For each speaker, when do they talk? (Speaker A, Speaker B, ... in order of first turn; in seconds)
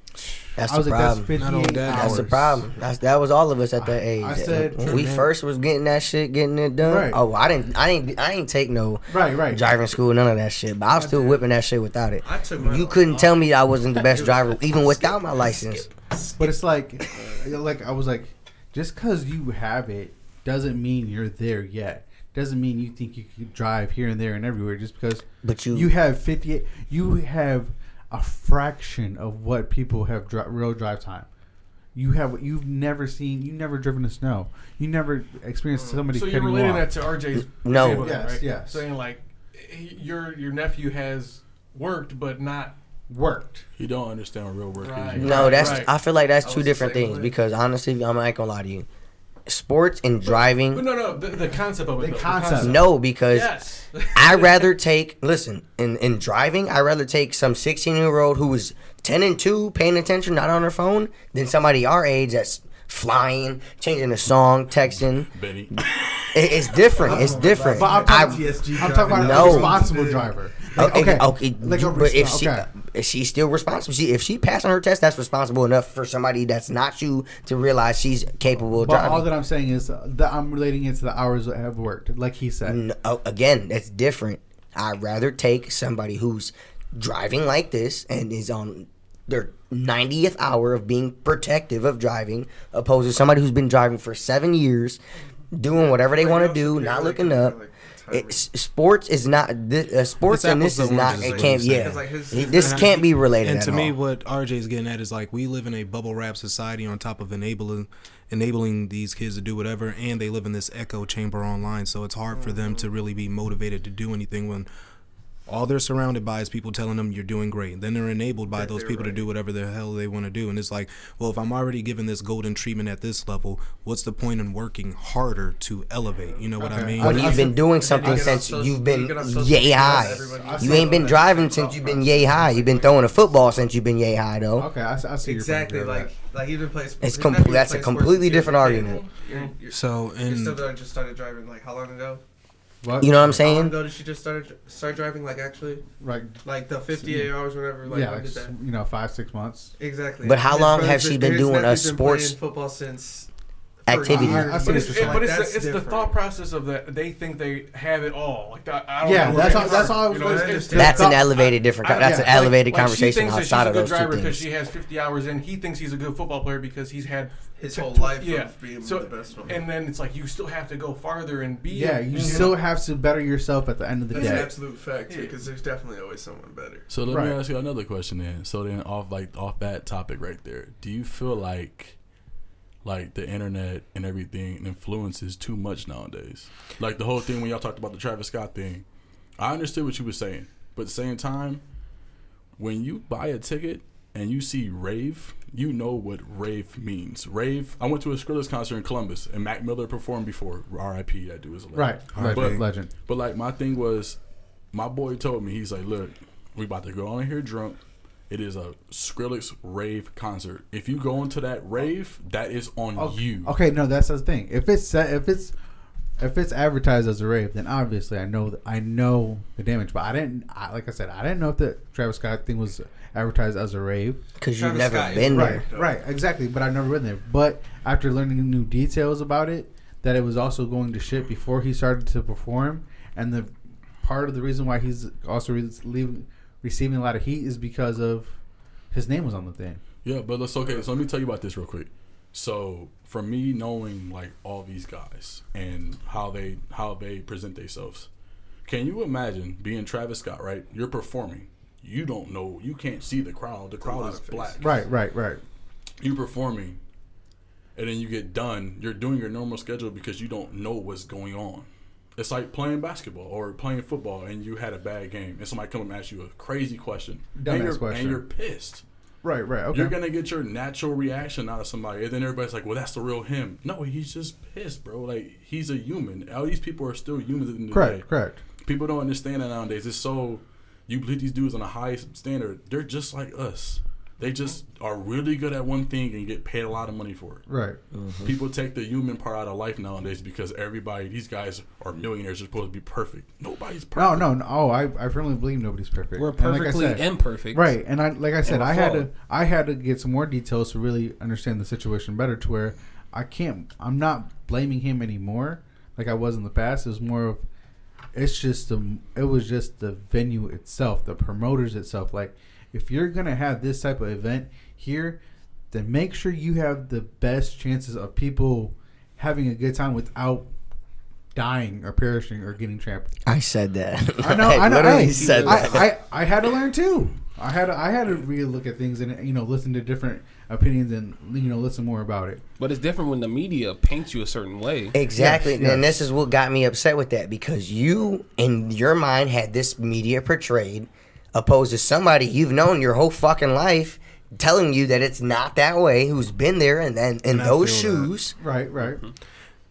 Speaker A: 0.6-16.0, 25.4-25.9, 37.3-38.2, 45.2-48.9, 49.5-50.9, 52.5-53.6, 54.1-68.5, 69.1-69.8, 70.8-79.3, 82.6-95.0, 95.5-97.6, 98.1-103.9, 127.0-134.7, 137.0-139.0, 143.0-143.8, 150.2-152.4, 153.9-155.0, 160.8-164.5, 224.4-225.7, 287.9-288.3, 323.2-325.9, 334.9-348.4
Speaker B: 0.6-2.6, 3.8-5.0, 6.8-7.2, 9.1-9.6, 16.4-31.3, 31.9-37.0, 37.7-38.9, 43.1-43.6, 45.2-45.6, 52.0-52.8, 67.0-72.7, 78.6-82.8, 126.6-128.4, 130.3-132.5, 134.6-136.1, 142.8-143.4, 146.0-146.4, 146.9-147.3, 147.8-149.7, 154.1-155.3, 159.0-161.3, 161.9-162.5, 171.7-174.5, 177.1-177.4, 201.7-202.9, 212.9-215.5, 216.2-224.2, 225.3-238.4, 238.9-239.8, 254.6-255.4, 267.4-268.2, 269.2-269.9, 277.7-278.4, 287.5-287.8, 293.9-307.4, 308.1-315.2, 315.7-320.5, 321.3-323.1, 324.2-332.4, 335.1-336.0, 348.4-349.0
Speaker C: 1.4-2.4, 4.8-5.3, 100.3-114.7, 115.5-127.4, 139.7-140.6, 202.1-202.6, 347.3-348.1
Speaker D: 11.0-11.3, 12.2-13.5, 46.3-47.4, 66.9-70.3, 95.7-98.5, 100.9-103.1, 112.3-112.9, 118.5-119.2, 127.0-133.0, 135.2-142.2, 143.1-145.8, 146.4-148.5, 149.8-153.3, 153.8-156.2, 159.1-161.3, 167.6-169.7, 172.1-172.6, 174.1-176.9, 224.5-226.0, 253.8-254.8
Speaker E: 35.9-42.8, 44.8-46.0, 50.2-54.7, 138.5-139.5, 154.5-172.6, 174.1-174.5, 175.1-175.4
Speaker F: 43.8-45.9, 65.3-66.7, 176.9-182.0, 182.8-188.8, 189.4-191.6, 192.6-204.2, 204.7-213.5, 240.0-248.1, 248.6-254.8, 256.0-256.8, 257.8-268.8, 269.7-278.1, 278.6-287.4, 288.2-294.3
Speaker G: 296.2-297.8, 298.4-299.1, 324.8-325.8, 332.6-335.0